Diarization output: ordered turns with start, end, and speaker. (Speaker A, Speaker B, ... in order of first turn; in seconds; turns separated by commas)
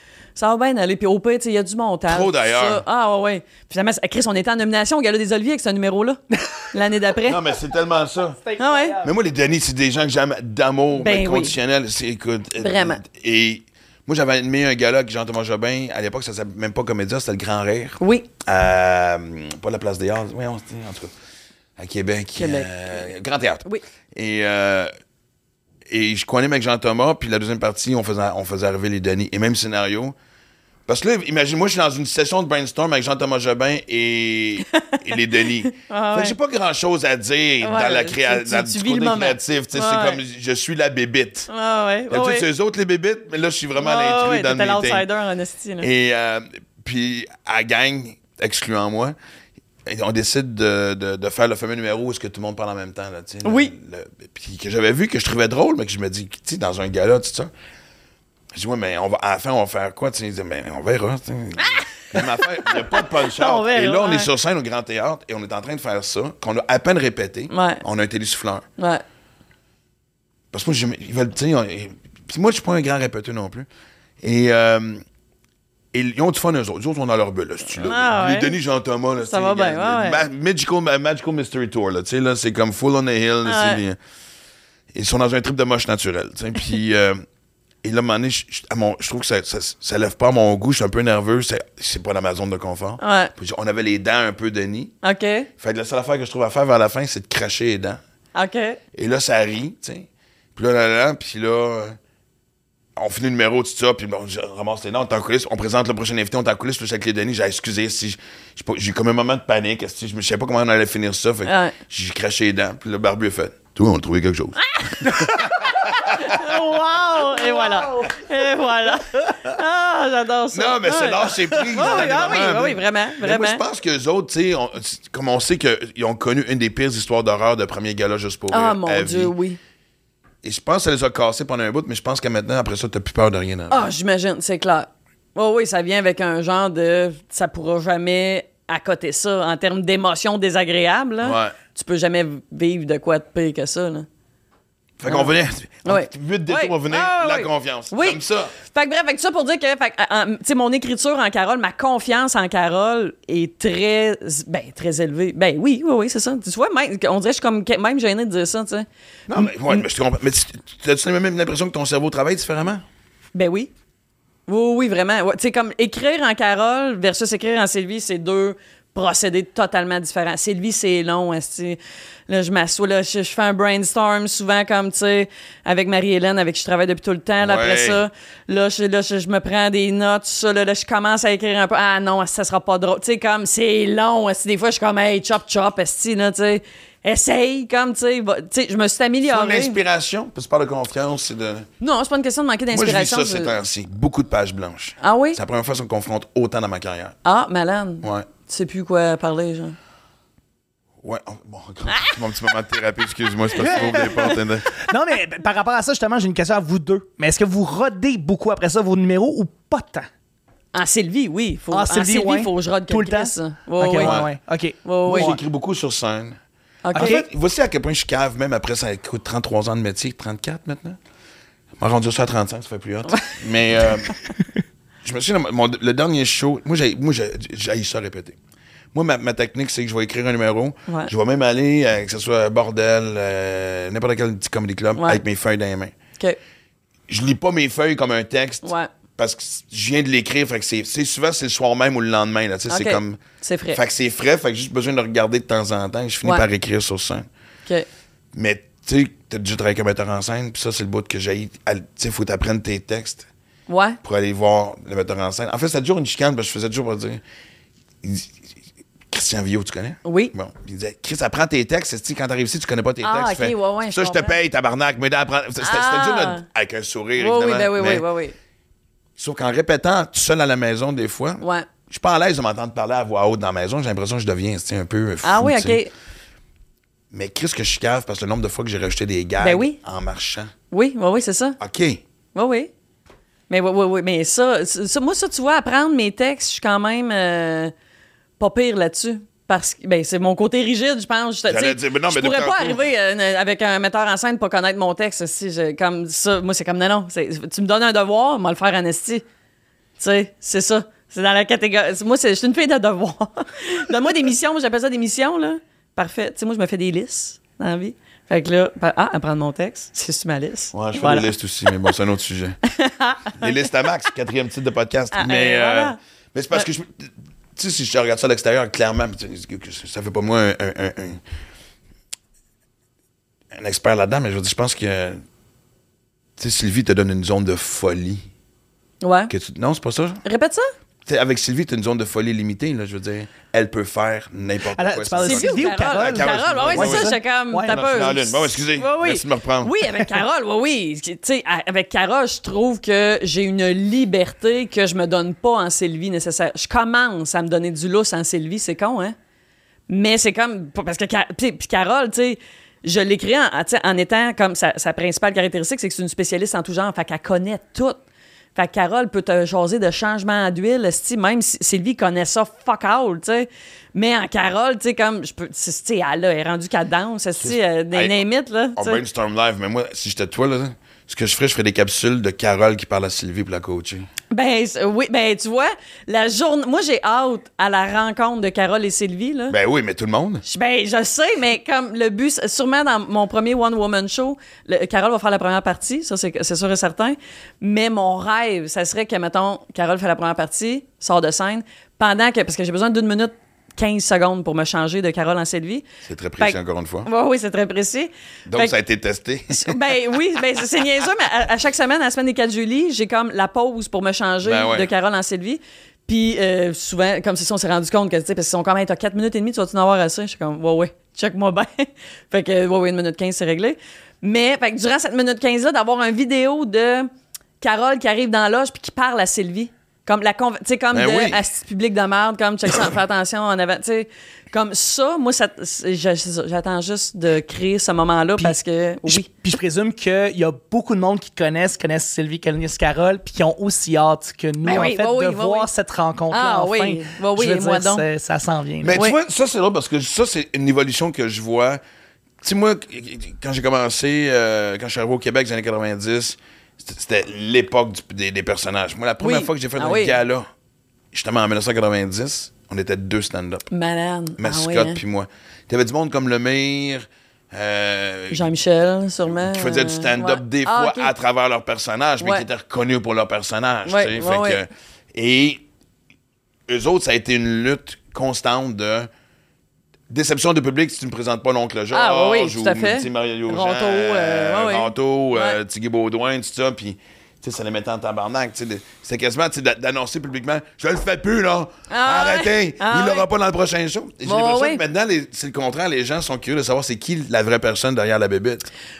Speaker A: 0.3-7.4, Speaker B: 2.1-2.8, Speaker B: 7.2-8.4, Speaker C: 8.4-9.1, Speaker A: 8.6-9.0, Speaker B: 9.0-21.1, Speaker A: 10.9-11.5, Speaker A: 12.6-13.0, Speaker A: 18.0-18.3, Speaker B: 21.8-24.9, Speaker A: 22.4-23.0, Speaker B: 25.9-30.1, Speaker B: 30.9-41.5, Speaker A: 34.7-36.4, Speaker A: 37.6-40.2, Speaker A: 41.5-42.5, Speaker B: 42.1-45.0, Speaker A: 43.8-45.9, Speaker B: 45.8-49.1, Speaker B: 49.9-57.5, Speaker A: 53.4-53.7, Speaker B: 58.5-68.6, Speaker A: 61.7-64.3, Speaker A: 67.5-67.8, Speaker A: 68.8-69.0, Speaker B: 70.5-73.7, Speaker B: 74.2-75.0, Speaker B: 75.9-84.0, Speaker A: 77.8-78.5, Speaker A: 79.2-80.2, Speaker A: 83.4-83.8, Speaker B: 84.9-87.2, Speaker B: 87.8-94.9, Speaker A: 93.0-93.3, Speaker A: 95.0-95.5, Speaker B: 95.6-98.0, Speaker A: 98.3-98.8, Speaker B: 98.9-102.0, Speaker B: 103.0-116.5, Speaker A: 111.5-111.7, Speaker A: 114.7-123.6, Speaker B: 120.5-129.3, Speaker A: 128.5-129.6, Speaker B: 130.4-133.9, Speaker A: 133.7-144.1, Speaker B: 141.2-141.5, Speaker B: 145.0-148.5, Speaker A: 145.1-145.3, Speaker A: 145.8-159.8, Speaker B: 159.3-162.8, Speaker A: 163.3-163.7, Speaker A: 164.5-189.8, Speaker B: 177.4-178.0, Speaker B: 189.3-191.7, Speaker A: 191.8-193.5, Speaker B: 192.7-197.2, Speaker A: 195.0-195.4, Speaker A: 197.2-199.8, Speaker B: 198.0-198.3, Speaker B: 201.0-204.7, Speaker C: 203.6-210.1, Speaker A: 203.8-204.3, Speaker A: 210.7-214.2, Speaker C: 211.7-215.4, Speaker B: 214.0-214.3, Speaker A: 214.8-215.3, Speaker B: 215.0-216.4, Speaker A: 216.8-217.2, Speaker C: 216.9-217.2, Speaker B: 216.9-221.0, Speaker B: 221.8-224.2, Speaker B: 225.0-228.4, Speaker B: 228.9-235.9, Speaker B: 237.1-243.2, Speaker A: 238.6-238.9, Speaker A: 242.7-243.8, Speaker B: 243.7-247.3, Speaker B: 248.3-253.3, Speaker A: 253.7-254.0, Speaker B: 254.0-257.2, Speaker B: 258.0-258.4, Speaker B: 259.1-268.1, Speaker A: 260.0-260.3, Speaker A: 263.0-264.4, Speaker A: 265.6-266.4, Speaker A: 267.2-268.3, Speaker B: 269.2-275.8, Speaker A: 271.4-271.7, Speaker A: 275.2-275.9, Speaker B: 277.1-280.5, Speaker A: 279.4-279.8, Speaker A: 280.7-281.6, Speaker B: 281.6-282.0, Speaker A: 282.3-282.7, Speaker A: 283.5-287.7, Speaker A: 288.4-299.2, Speaker B: 291.5-292.8, Speaker A: 300.0-311.2, Speaker B: 310.7-312.6, Speaker A: 312.7-313.6, Speaker B: 313.3-321.2, Speaker A: 315.1-316.0, Speaker B: 323.5-325.2, Speaker B: 326.4-328.2, Speaker A: 329.0-329.3, Speaker B: 329.3-330.2, Speaker A: 330.2-330.7, Speaker B: 331.1-337.1, Speaker C: 334.7-337.9, Speaker A: 335.2-349.1, Speaker B: 337.7-339.7, Speaker A: 349.9-358.0, Speaker A: 358.5-369.0, Speaker B: 367.4-368.2, Speaker B: 368.8-374.1, Speaker A: 374.3-379.6, Speaker B: 379.5-380.4, Speaker A: 380.4-395.8, Speaker B: 396.1-397.1, Speaker A: 396.4-398.7, Speaker B: 398.5-399.8, Speaker A: 399.5-417.1, Speaker B: 404.4-404.9, Speaker A: 417.6-429.3, Speaker B: 420.9-421.4, Speaker C: 428.4-439.0, Speaker A: 434.6-435.7, Speaker A: 436.3-438.1, Speaker B: 438.8-441.8, Speaker B: 442.4-450.5, Speaker A: 449.2-450.2, Speaker B: 451.1-453.7, Speaker A: 453.7-455.0, Speaker B: 454.4-458.5, Speaker A: 458.3-461.1, Speaker B: 459.2-465.6, Speaker A: 463.9-464.6, Speaker B: 466.7-469.1, Speaker B: 470.1-488.7, Speaker A: 471.9-475.6, Speaker A: 481.9-483.2, Speaker A: 484.2-484.8